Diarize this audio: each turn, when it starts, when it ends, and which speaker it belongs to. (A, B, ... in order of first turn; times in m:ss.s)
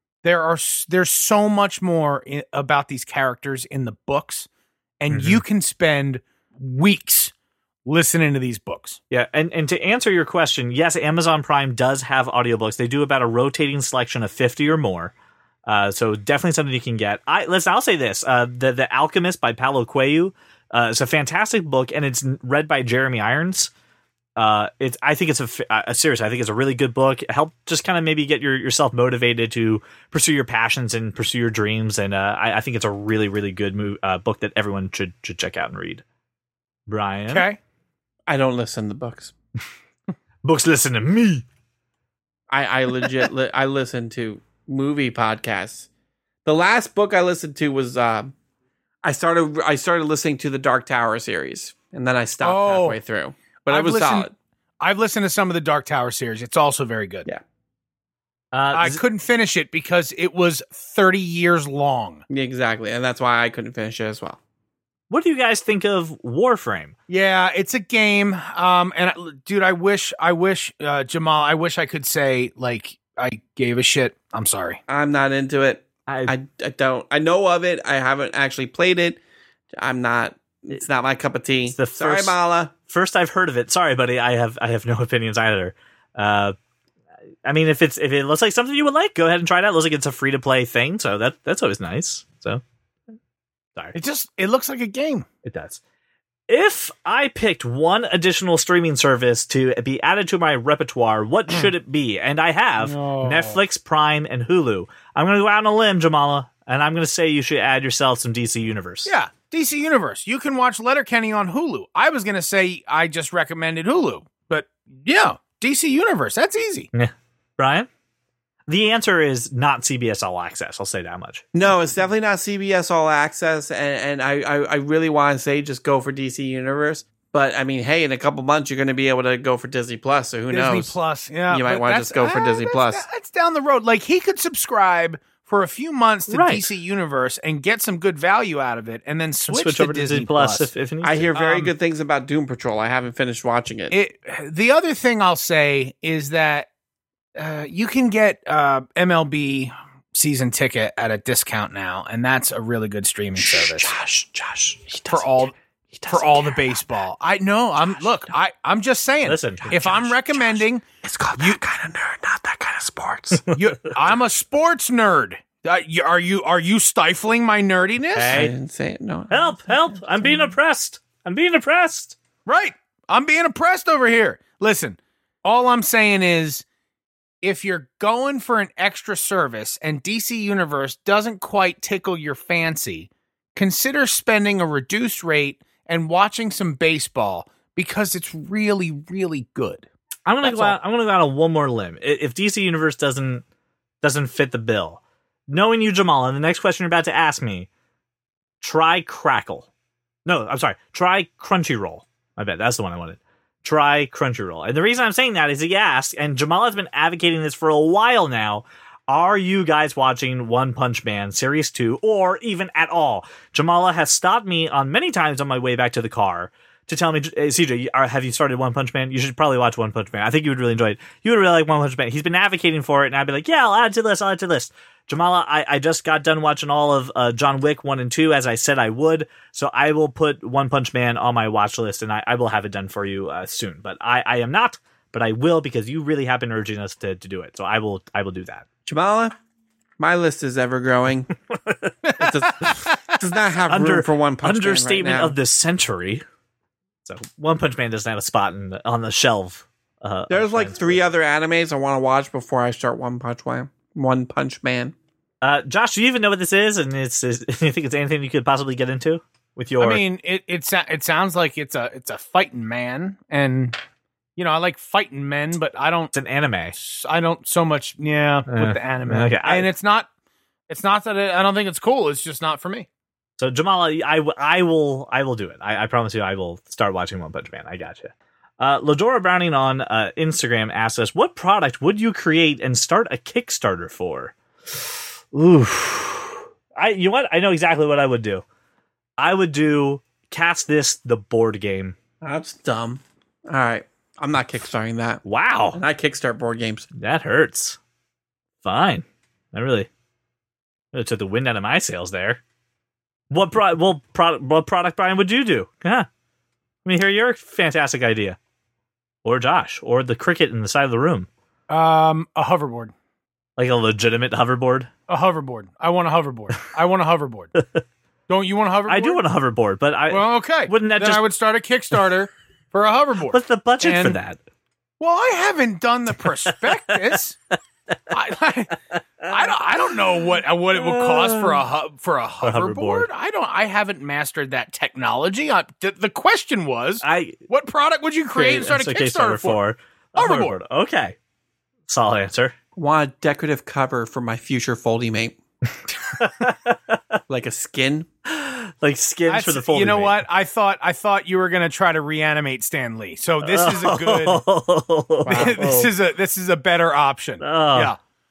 0:00.2-0:04.5 A
0:05.0-0:07.3 A
0:05.1-0:05.4 B
0:07.8-0:09.0 A
0:09.1-0:15.1 B
0:15.7-0:23.7 B
0:24.4-0:36.0 B
0:36.9-0:37.5 B
0:37.3-0:37.6 A
0:38.3-0:39.3 C
0:40.4-0:41.4 B
0:42.5-0:45.9 C
0:46.4-0:48.3 C
0:49.0-0:54.3 C
0:52.4-0:53.0 A
0:53.7-0:57.3 A
0:58.5-0:59.0 B
0:58.7-1:02.2 A
1:02.3-1:04.4 C
1:05.1-1:06.9 B
1:07.1-1:14.8 A
1:14.9-1:19.2 C
1:16.1-1:16.3 B
1:19.8-1:22.7 C
1:21.7-1:22.4 B
1:22.9-1:26.6 B
1:27.4-1:32.6 B
1:33.9-1:35.3 A
1:35.4-1:35.8 B
1:36.5-1:49.1 B
1:42.8-1:43.6 A
1:49.1-1:56.9 A
1:56.9-1:57.9 B
1:58.7-2:01.4 B
2:01.6-2:11.0 C
2:10.5-2:20.7 A
2:11.5-2:13.1 C
2:16.3-2:16.7 B
2:19.5-2:21.7 B
2:21.0-2:24.0 C
2:23.9-2:26.7 A
2:27.4-2:34.0 A
2:33.4-2:35.4 C
2:35.1-2:35.6 A
2:36.0-2:36.8 C
2:36.1-2:40.8 A
2:39.2-2:40.1 B
2:39.7-2:43.5 C
2:43.5-2:48.4 A
2:48.1-2:48.5 B
2:48.3-2:50.5 C
2:49.3-2:52.2 B
2:52.4-2:56.6 A
2:57.4-3:09.9 A
3:10.3-3:13.4 B
3:10.4-3:10.8 A
3:14.0-3:17.7 B
3:18.6-3:19.7 B
3:20.2-3:58.6 B
3:58.9-3:59.3 C
4:00.0-4:01.3 C
4:01.5-4:02.9 B
4:02.1-4:05.4 C
4:03.7-4:06.2 B
4:07.0-4:11.0 B
4:10.3-4:14.9 C
4:15.4-4:20.0 B
4:19.8-4:23.8 A
4:24.4-4:26.1 A
4:26.1-4:26.8 B
4:26.8-4:30.1 A
4:28.5-4:29.7 B
4:30.7-4:32.9 A
4:33.4-4:44.3 B
4:45.3-4:48.4 B
4:49.2-4:52.0 B
4:52.2-4:55.2 C
4:55.2-4:55.8 B
4:55.7-4:56.9 C
4:57.0-4:57.8 B
4:58.6-4:59.9 B
5:00.9-5:02.4 B
5:03.3-5:06.1 B
5:06.8-5:08.4 B
5:09.2-5:11.3 B
5:11.7-5:12.9 A
5:13.6-5:14.9 B
5:15.1-5:17.5 A
5:18.3-5:19.2 A
5:18.9-5:21.3 B
5:20.1-5:24.2 A
5:23.3-5:24.4 B
5:25.0-5:27.4 A
5:28.1-5:28.8 A
5:29.2-5:29.5 B
5:29.3-5:39.6 A
5:30.7-5:31.6 B
5:32.4-5:33.1 B
5:37.0-5:37.4 B
5:38.4-5:41.2 B
5:40.2-5:40.6 A
5:41.9-5:42.5 B
5:42.8-5:45.4 C
5:46.2-5:47.2 B
5:47.3-5:48.1 C
5:48.3-5:50.2 B
5:49.3-5:54.4 A
5:53.4-5:55.9 B
5:55.3-5:55.6 C
5:55.3-5:58.0 A
5:57.4-5:57.9 B